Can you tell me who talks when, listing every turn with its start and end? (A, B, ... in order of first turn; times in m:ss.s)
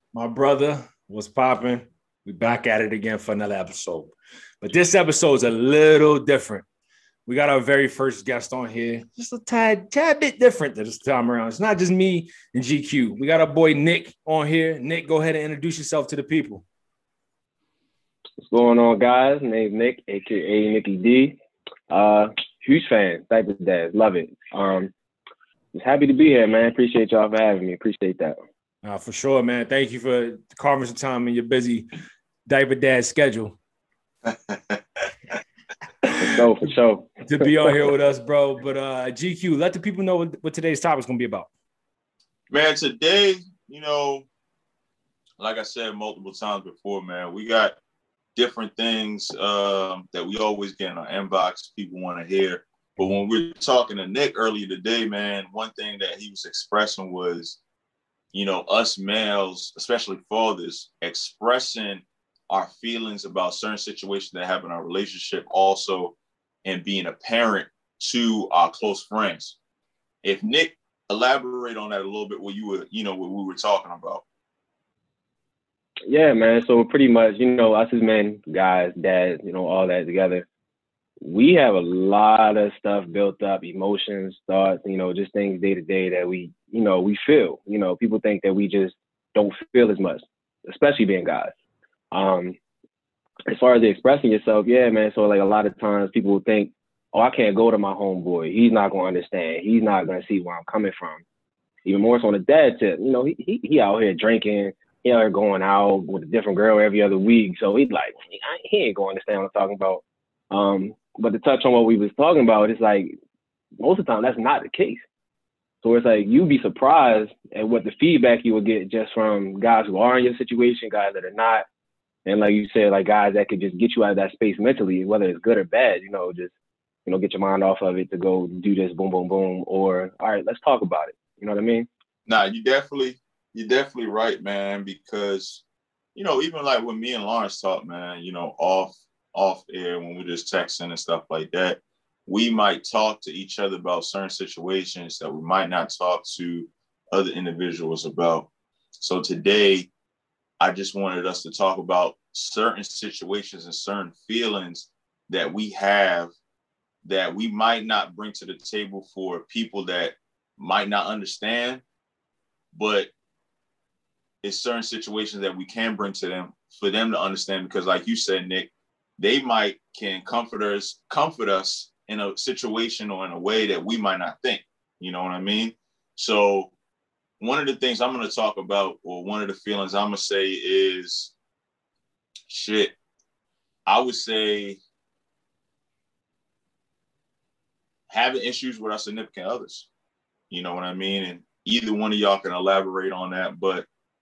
0:00.1-0:06.6 A
0:07.3-0:16.6 A
0:18.4-0:21.4 B
0:21.9-0:24.9 B
0:25.7-0:28.4 B
0:28.8-0:31.9 A
0:32.5-0:33.6 A
0:34.2-0:34.8 C
0:36.0-0:36.3 A
0:36.2-0:37.8 B
0:37.2-0:41.5 A
0:42.5-0:44.3 C
0:45.4-0:47.8 C
0:48.4-0:57.6 C
0:58.3-1:09.6 C
1:10.2-1:14.2 C
1:16.1-1:20.5 B
1:21.2-1:31.5 B
1:32.1-1:32.6 B
1:33.5-1:41.2 B
1:41.9-1:53.1 B
1:53.8-1:55.0 B
1:55.8-2:01.6 B
2:02.3-2:06.5 B
2:07.1-2:11.9 B
2:12.3-2:15.6 C
2:16.2-2:28.5 C
2:29.0-2:29.9 C
2:30.6-2:36.3 C
2:37.0-2:41.8 C
2:42.8-2:43.1 C
2:44.4-2:56.7 C
2:57.4-3:01.3 C
3:02.5-3:02.9 C
3:03.9-3:04.8 C
3:08.1-3:09.9 C
3:10.5-3:13.9 C